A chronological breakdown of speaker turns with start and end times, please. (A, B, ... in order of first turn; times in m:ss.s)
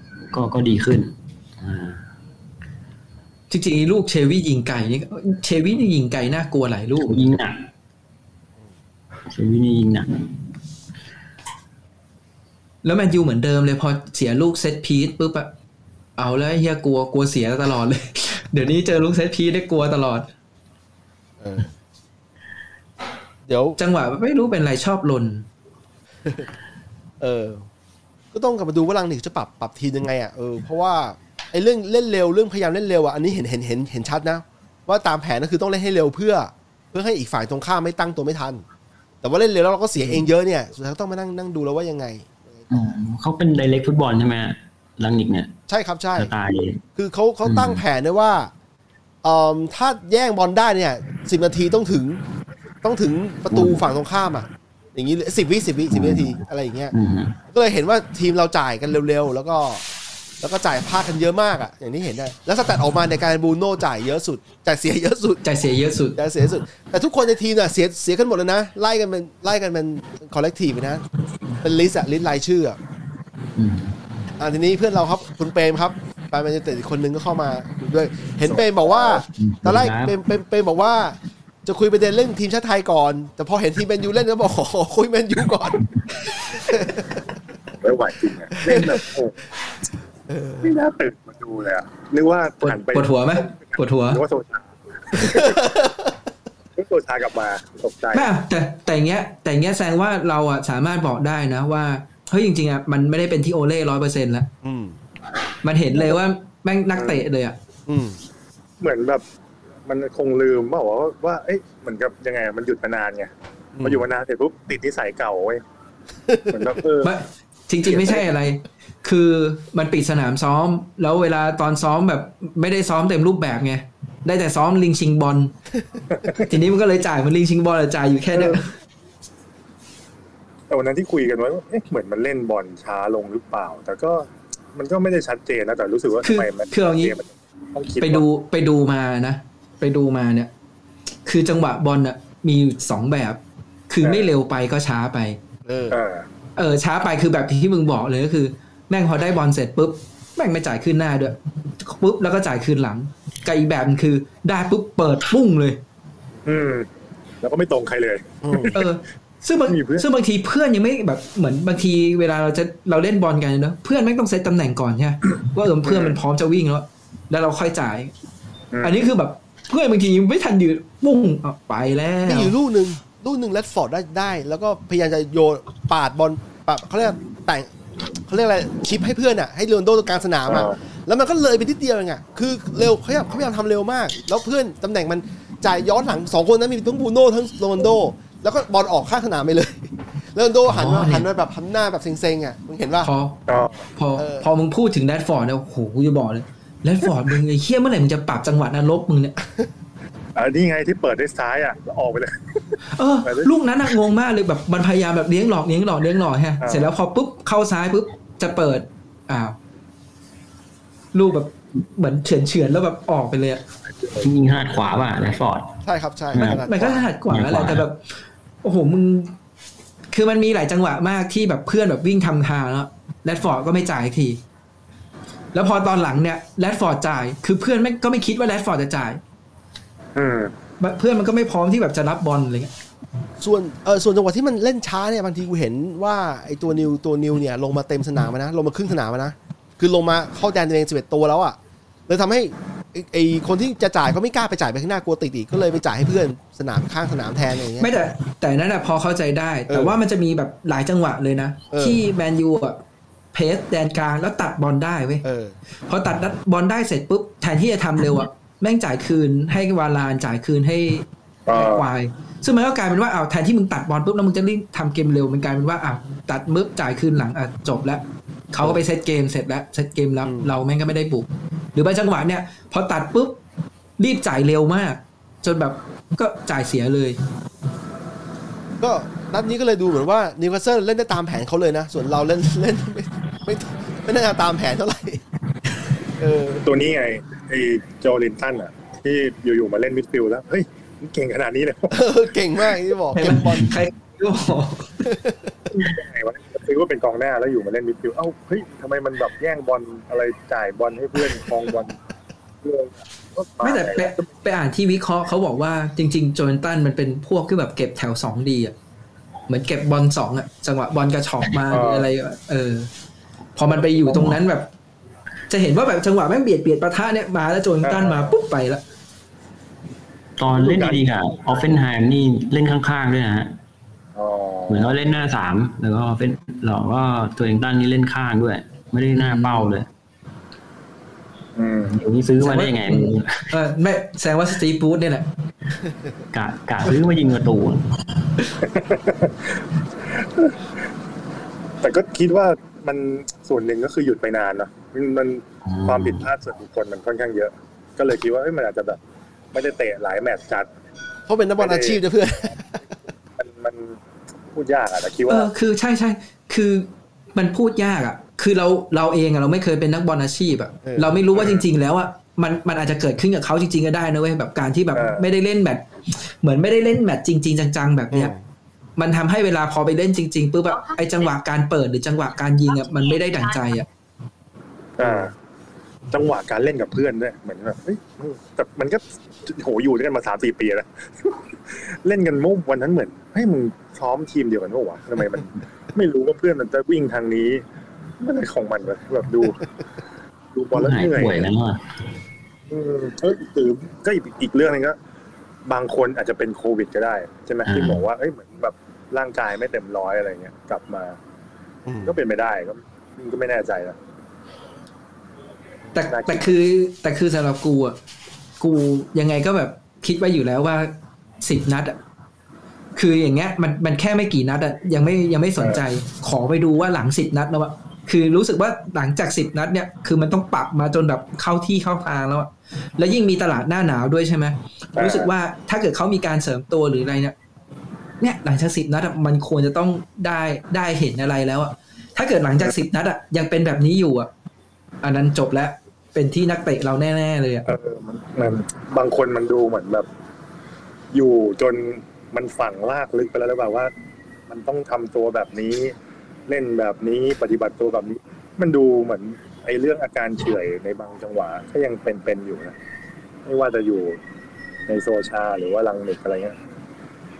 0:00.3-0:02.1 A
0:03.5-0:07.2 B
0:07.0-0:07.7 A
0:09.3-0:10.3 A
0:12.8-0:15.5 B
0:16.2-0:20.3 B
0:21.4-0:21.7 C
0:23.5-0:23.8 C
0:23.8-0:25.5 B
0:27.2-0:27.7 C
0:28.3-0:38.6 C
0:39.2-0:42.9 C
0:42.7-0:45.5 A
0:45.7-0:46.3 C
0:46.2-0:46.8 A
0:47.0-0:48.5 C
0:47.4-0:47.8 A
0:49.2-0:52.2 C
0:52.8-0:57.0 C
0:53.5-0:53.8 A
0:55.9-0:56.4 A
0:56.9-0:57.4 A
0:57.5-0:59.8 C
1:00.4-1:05.4 C
1:05.4-1:06.2 B
1:06.2-1:11.0 C
1:11.6-1:12.8 C
1:13.6-1:14.0 A
1:14.4-1:25.9 C
1:18.5-1:19.2 D
1:19.3-1:20.2 A
1:26.6-1:27.2 C
1:27.8-1:29.4 D
1:28.6-1:28.9 C
1:30.3-1:30.7 C
1:30.6-1:35.8 D
1:32.6-1:34.2 B
1:35.2-1:36.1 C
1:36.8-1:38.3 D
1:38.1-1:44.5 B
1:44.6-1:45.0 C
1:45.6-1:47.6 B
1:47.0-1:47.2 D
1:47.9-1:48.2 C
1:48.8-1:49.2 D
1:49.9-1:53.3 D
1:53.8-1:54.0 C
1:53.8-1:55.6 D
1:56.3-1:56.7 C
1:56.5-1:57.1 D
1:57.0-2:05.5 B
1:57.9-1:58.2 D
2:06.1-2:06.5 D
2:06.4-2:08.7 B
2:08.3-2:08.6 D
2:10.7-2:18.2 D
2:16.2-2:17.2 B
2:18.0-2:20.5 B
2:21.3-2:25.4 B
2:24.0-2:24.3 D
2:25.7-2:26.0 C
2:25.9-2:26.3 D
2:26.6-2:35.8 B
2:36.4-2:36.9 D
2:37.4-2:38.8 D
2:38.4-2:38.8 C
2:38.7-2:48.1 B
2:39.7-2:40.1 D
2:45.9-2:46.2 D
2:48.7-2:49.0 D
2:48.8-2:52.5 B
2:52.2-2:57.7 C
2:58.3-3:13.1 C
3:00.5-3:00.8 D
3:10.7-3:11.3 B
3:13.0-3:13.4 B
3:13.5-3:13.8 D
3:14.0-3:19.4 B
3:14.2-3:14.5 C
3:20.4-3:23.5 D
3:22.9-3:29.6 B
3:26.6-3:26.9 D
3:31.1-3:33.6 B
3:34.2-3:35.8 A
3:35.8-3:37.1 C
3:36.3-3:36.6 A
3:36.4-3:38.0 B
3:37.3-3:37.8 A
3:38.6-3:39.4 B
3:40.1-3:44.4 B
3:45.5-3:49.2 B
3:50.2-3:50.5 D
3:50.8-3:52.7 B
3:53.4-4:01.6 C
4:02.1-4:07.9 C
4:07.8-4:12.8 B
4:09.7-4:10.0 C
4:11.7-4:12.0 C
4:13.3-4:15.2 B
4:15.2-4:15.6 C
4:15.9-4:33.4 B
4:21.5-4:21.9 D
4:30.2-4:30.5 C
4:34.0-4:37.2 B
4:38.8-4:45.2 C
4:46.2-4:46.7 C
4:46.6-4:52.0 D
4:51.9-4:53.8 C
4:53.1-4:55.1 B
4:55.0-4:55.5 C
4:55.7-5:02.0 D
5:02.6-5:04.2 D
5:03.6-5:08.7 B
5:09.5-5:12.9 B
5:11.7-5:12.1 D
5:13.6-5:14.7 B
5:14.1-5:14.4 A
5:15.5-5:18.8 B
5:17.8-5:18.4 D
5:20.4-5:23.6 A
5:20.6-5:21.6 D
5:24.2-5:25.0 D
5:24.7-5:29.9 A
5:29.1-5:29.7 B
5:31.6-5:32.0 D
5:31.9-5:33.5 A
5:32.4-5:35.3 B
5:36.3-5:37.9 A
5:38.6-5:40.6 D
5:41.8-5:49.0 D
5:45.6-5:46.3 A
5:49.5-5:50.7 D
5:51.3-5:52.8 C
5:51.6-5:52.0 D
5:53.4-5:54.0 D
5:54.5-5:55.5 D
5:55.3-6:08.3 B
6:00.8-6:01.2 C
6:01.4-6:01.6 D
6:04.9-6:05.3 D
6:08.1-6:08.4 C
6:09.0-6:13.9 B
6:15.0-6:15.3 D
6:15.0-6:15.3 C
6:16.1-6:18.0 D
6:18.6-6:27.6 D
6:28.2-6:29.7 D
6:30.5-6:31.5 D
6:30.7-6:31.8 A
6:32.7-6:35.0 D
6:35.7-6:41.2 D
6:37.7-6:38.0 A
6:41.8-6:42.2 C
6:42.0-6:44.0 D
6:45.9-6:48.0 B
6:46.0-6:46.5 D
6:48.6-6:52.0 B
6:53.0-7:07.4 B
7:05.0-7:05.3 D
7:08.2-7:14.3 B
7:15.0-7:17.7 B
7:17.7-7:20.1 D
7:21.1-7:23.9 D
7:24.5-7:26.0 D
7:26.5-7:32.8 D
7:33.5-7:34.2 D
7:34.9-7:36.6 D